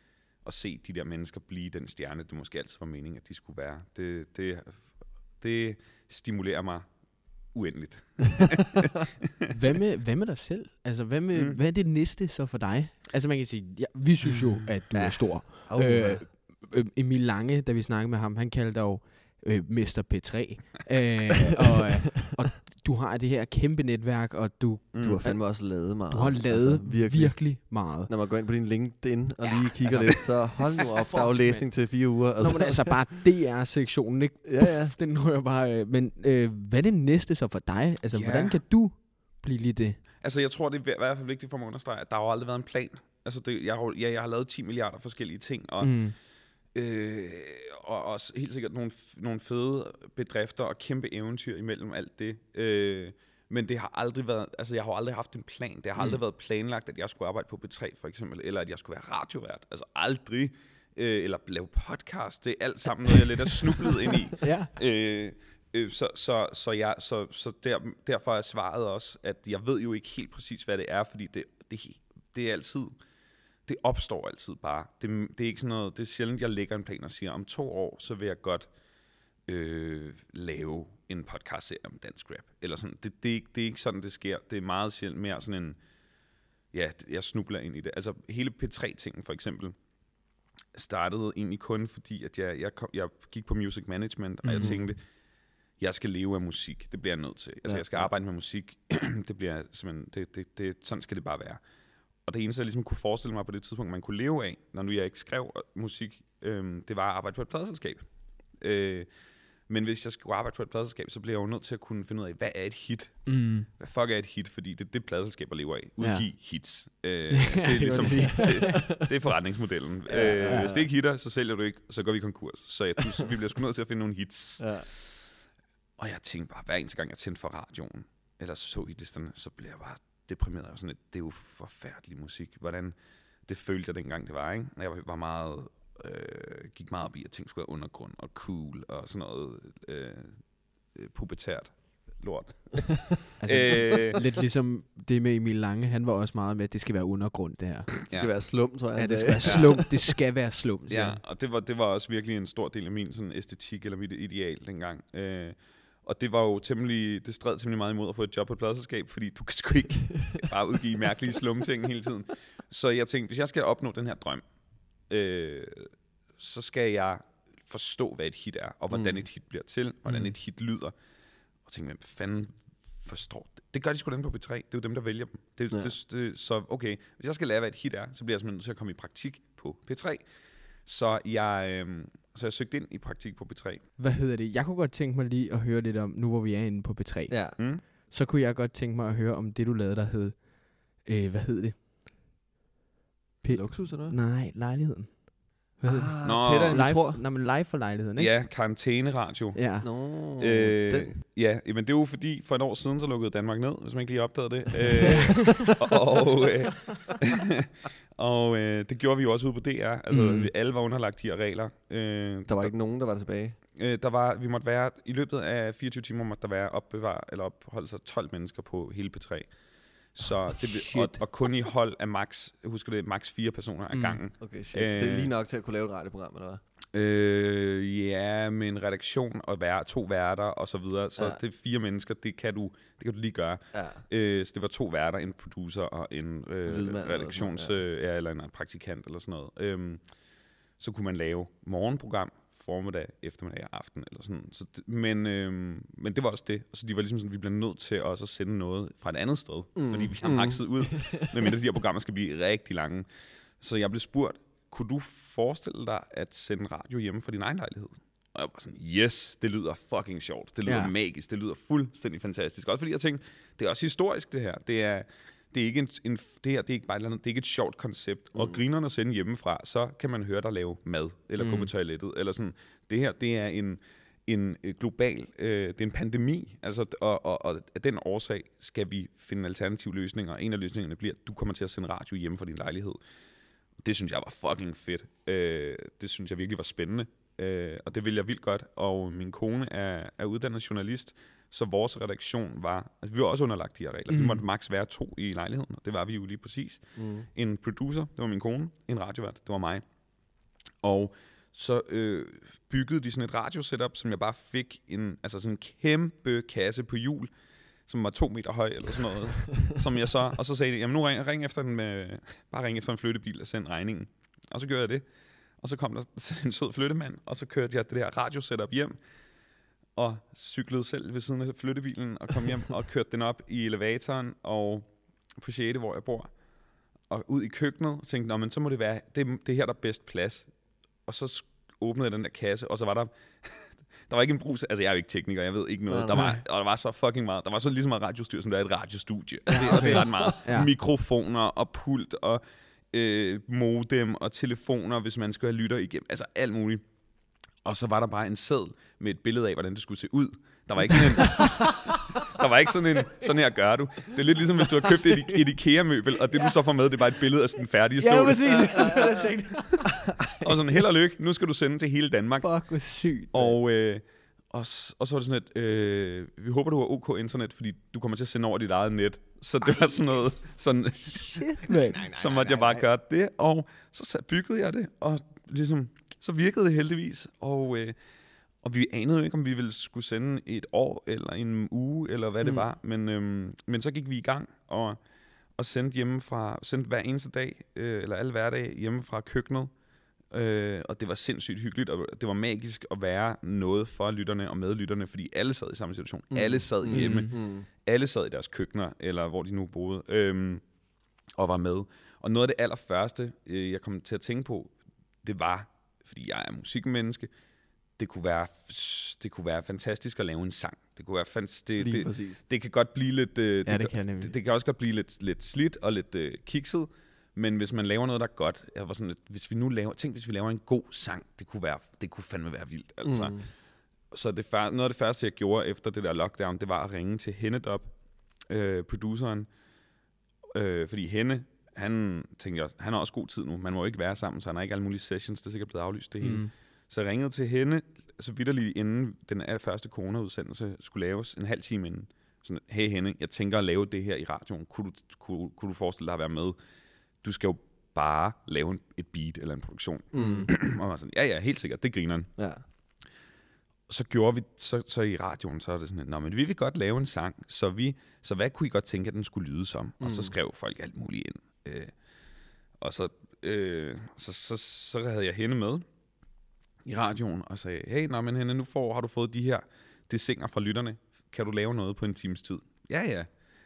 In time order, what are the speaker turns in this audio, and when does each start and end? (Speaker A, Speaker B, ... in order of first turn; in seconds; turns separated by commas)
Speaker A: 0.4-9.5, Speaker B: 9.5-28.1, Speaker C: 14.9-16.3, Speaker A: 24.9-25.2, Speaker C: 25.0-33.1, Speaker B: 29.4-40.0, Speaker C: 34.4-34.9, Speaker A: 38.1-38.6, Speaker A: 40.2-46.1, Speaker B: 45.8-46.1, Speaker A: 46.7-72.9, Speaker B: 64.4-64.7, Speaker A: 73.7-78.7, Speaker A: 79.5-85.8, Speaker A: 86.7-89.7, Speaker A: 90.7-95.0, Speaker B: 94.4-94.8, Speaker A: 95.8-101.6, Speaker C: 97.7-98.1, Speaker A: 102.2-109.1, Speaker A: 109.7-125.4, Speaker B: 113.2-113.7, Speaker B: 116.0-116.2, Speaker B: 117.3-118.9, Speaker C: 117.9-119.0, Speaker C: 120.1-120.9, Speaker C: 124.6-124.9, Speaker A: 126.0-132.9, Speaker A: 133.4-144.2, Speaker B: 143.4-147.9, Speaker C: 148.1-149.9, Speaker B: 148.9-151.2, Speaker A: 149.4-149.9, Speaker A: 150.9-164.4, Speaker A: 165.1-170.9, Speaker C: 168.9-169.2, Speaker B: 170.1-170.3, Speaker A: 171.7-180.2, Speaker A: 180.8-183.8, Speaker B: 184.0-191.8, Speaker C: 187.3-187.6, Speaker B: 193.4-198.3, Speaker C: 193.5-194.1, Speaker C: 195.8-197.2, Speaker A: 196.2-196.9, Speaker A: 198.2-199.6, Speaker B: 199.5-199.9, Speaker C: 199.8-201.2, Speaker A: 200.4-212.7, Speaker C: 205.0-205.3, Speaker B: 205.0-205.7, Speaker B: 210.1-210.5, Speaker C: 212.5-213.6, Speaker A: 213.8-219.5, Speaker A: 220.1-225.3, Speaker B: 220.8-221.2, Speaker B: 223.9-224.2, Speaker C: 224.4-226.6, Speaker A: 226.9-240.0, Speaker C: 233.7-234.0, Speaker C: 236.7-237.7, Speaker A: 240.8-253.1, Speaker C: 249.8-251.5, Speaker A: 253.6-283.0, Speaker B: 260.6-260.9, Speaker C: 268.3-268.6, Speaker B: 271.4-271.7, Speaker A: 283.8-299.8, Speaker B: 294.1-294.4, Speaker C: 297.0-297.3, Speaker A: 300.8-307.3, Speaker A: 307.9-315.0, Speaker A: 315.6-319.0, Speaker A: 319.9-324.9, Speaker A: 325.4-326.3, Speaker A: 327.1-330.5, Speaker A: 331.1-346.8, Speaker C: 335.9-336.2, Speaker B: 336.1-336.4, Speaker C: 339.5-340.2, Speaker B: 339.5-340.7, Speaker A: 347.6-358.9, Speaker B: 351.2-351.7, Speaker B: 358.0-360.1, Speaker C: 358.8-359.2, Speaker A: 360.4-362.5, Speaker B: 362.4-363.4, Speaker A: 363.3-377.9, Speaker C: 371.3-372.8, Speaker B: 371.6-372.0, Speaker A: 378.6-385.0, Speaker A: 385.6-389.7, Speaker A: 390.3-400.6, Speaker C: 396.3-397.6, Speaker B: 396.9-397.3, Speaker A: 401.4-404.7, Speaker A: 405.2-407.3, Speaker A: 408.0-423.5, Speaker C: 411.8-412.4, Speaker B: 413.6-414.3, Speaker C: 423.0-423.4, Speaker A: 424.1-427.9, Speaker A: 428.5-429.5, Speaker A: 430.5-446.6, Speaker B: 436.2-436.5, Speaker A: 447.2-452.3, Speaker C: 450.1-450.5, Speaker B: 450.2-450.4, Speaker C: 452.4-452.6, Speaker A: 453.9-461.9, Speaker C: 460.0-460.3, Speaker A: 462.8-465.8, Speaker A: 466.8-473.3